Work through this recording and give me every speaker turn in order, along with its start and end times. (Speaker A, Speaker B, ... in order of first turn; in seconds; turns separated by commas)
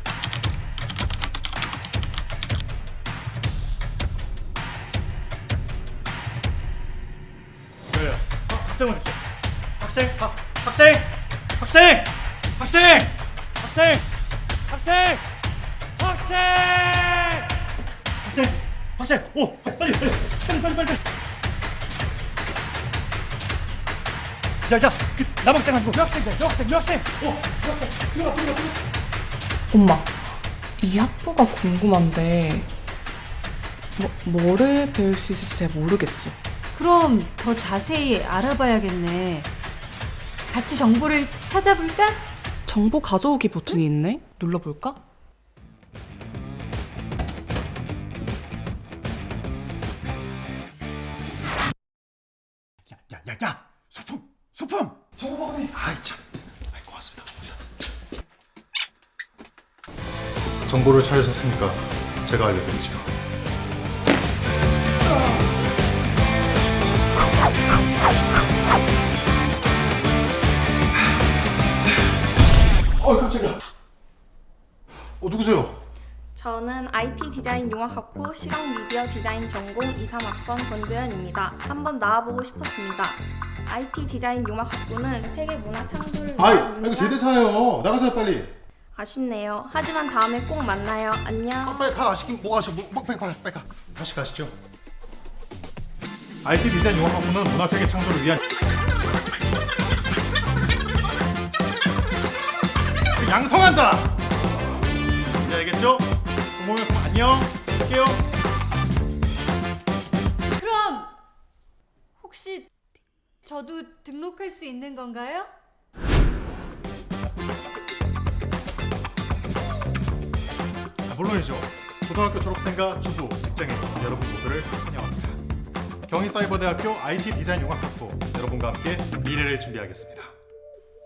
Speaker A: 7.9-9.2, Speaker A: 9.8-14.1, Speaker A: 14.7-15.2, Speaker A: 16.0-17.5, Speaker A: 18.2-21.0, Speaker A: 24.7-28.8, Speaker B: 29.7-30.1, Speaker B: 30.8-32.7, Speaker B: 34.0-36.4, Speaker C: 36.7-39.5, Speaker C: 40.5-42.2, Speaker B: 42.7-45.0, Speaker A: 52.9-55.0, Speaker D: 55.2-57.5, Speaker D: 60.7-63.1, Speaker D: 73.0-73.6, Speaker D: 75.2-75.8, Speaker E: 76.3-87.2, Speaker D: 86.4-88.5, Speaker E: 89.0-91.9, Speaker D: 91.6-94.5, Speaker D: 96.4-98.4, Speaker D: 103.2-104.2, Speaker D: 105.4-108.2, Speaker C: 110.5-111.1, Speaker C: 112.2-112.7, Speaker C: 113.4-115.5, Speaker D: 121.1-125.4, Speaker D: 126.1-130.3